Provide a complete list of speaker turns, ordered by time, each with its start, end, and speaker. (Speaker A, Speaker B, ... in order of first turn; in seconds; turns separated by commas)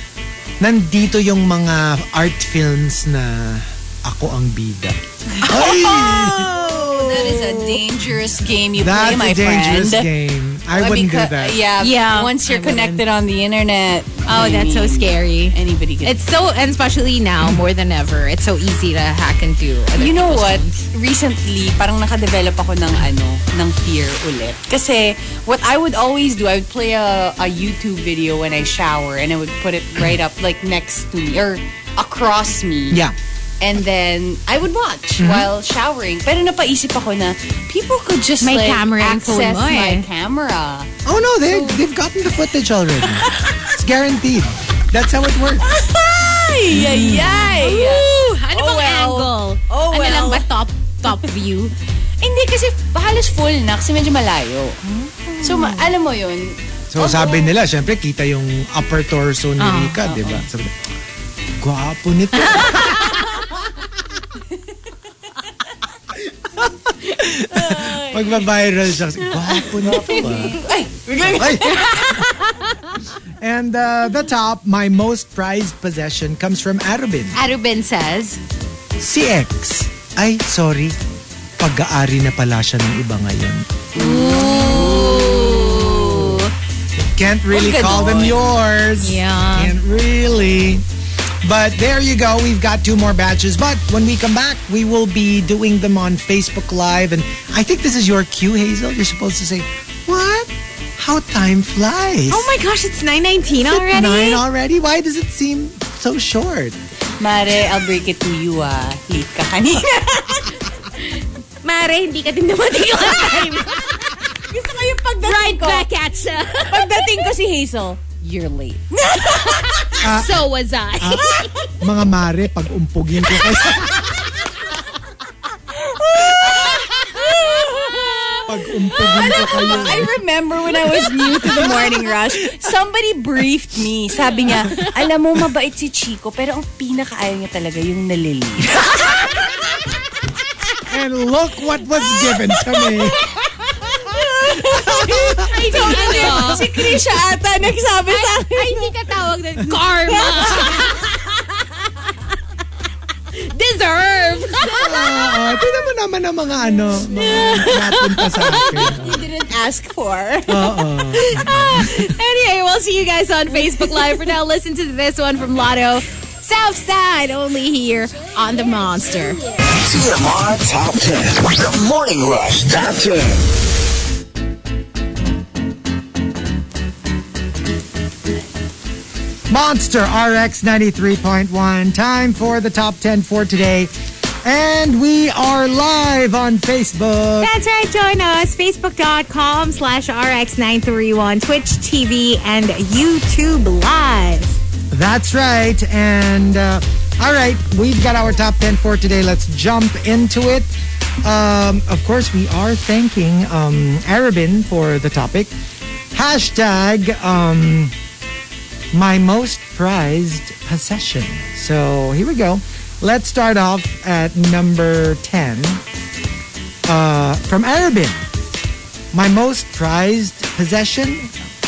Speaker A: 0.6-7.9, Speaker B: 5.5-10.1, Speaker A: 8.8-11.6, Speaker B: 10.7-16.2, Speaker C: 11.8-13.1, Speaker C: 14.3-20.8, Speaker B: 19.9-33.0, Speaker B: 33.6-40.9, Speaker A: 35.2-35.5, Speaker C: 38.4-40.1, Speaker A: 41.0-45.7, Speaker B: 41.5-41.8, Speaker B: 43.2-43.5, Speaker B: 45.6-50.5, Speaker A: 46.7-47.4, Speaker C: 47.0-51.7, Speaker B: 52.2-54.8, Speaker C: 54.9-55.9, Speaker B: 55.4-57.5, Speaker A: 56.9-60.8, Speaker C: 59.6-60.1, Speaker B: 60.1-60.5, Speaker A: 61.6-63.2, Speaker C: 62.4-63.2, Speaker A: 66.6-70.6, Speaker B: 67.5-68.5, Speaker B: 69.4-72.2, Speaker A: 71.2-72.2, Speaker C: 71.5-72.7, Speaker A: 73.4-77.4, Speaker C: 77.3-78.4, Speaker A: 79.0-81.0, Speaker A: 81.6-83.7, Speaker B: 84.0-86.4, Speaker C: 84.0-86.5, Speaker A: 87.0-90.8, Speaker B: 87.5-88.4, Speaker C: 89.0-89.8, Speaker A: 91.4-102.5, Speaker C: 102.3-104.4, Speaker A: 103.7-106.8, Speaker B: 107.2-110.5, Speaker C: 111.6-114.2, Speaker B: 114.5-115.9, Speaker C: 115.2-117.3, Speaker B: 116.7-120.0, Speaker C: 119.4-121.5, Speaker A: 120.0-120.4, Speaker A: 121.0-124.1, Speaker B: 125.7-139.5, Speaker A: 128.5-130.2, Speaker A: 131.4-132.0, Speaker A: 140.9-143.2, Speaker B: 142.8-143.2, Speaker B: 143.9-148.9, Speaker A: 144.5-146.8, Speaker C: 145.1-147.0, Speaker C: 148.1-151.4, Speaker B: 150.1-151.1, Speaker C: 153.3-155.5, Speaker A: 154.7-159.3, Speaker B: 157.1-160.7, Speaker C: 157.4-159.0, Speaker A: 160.5-162.1, Speaker C: 161.0-169.4, Speaker B: 163.5-164.3, Speaker D: 169.5-173.5, Speaker A: 179.5-183.9, Speaker A: 184.4-187.5, Speaker C: 187.4-194.6, Speaker A: 194.9-200.7, Speaker A: 201.2-205.5, Speaker A: 206.1-207.9, Speaker A: 208.9-215.8, Speaker A: 216.9-218.3, Speaker A: 219.1-221.3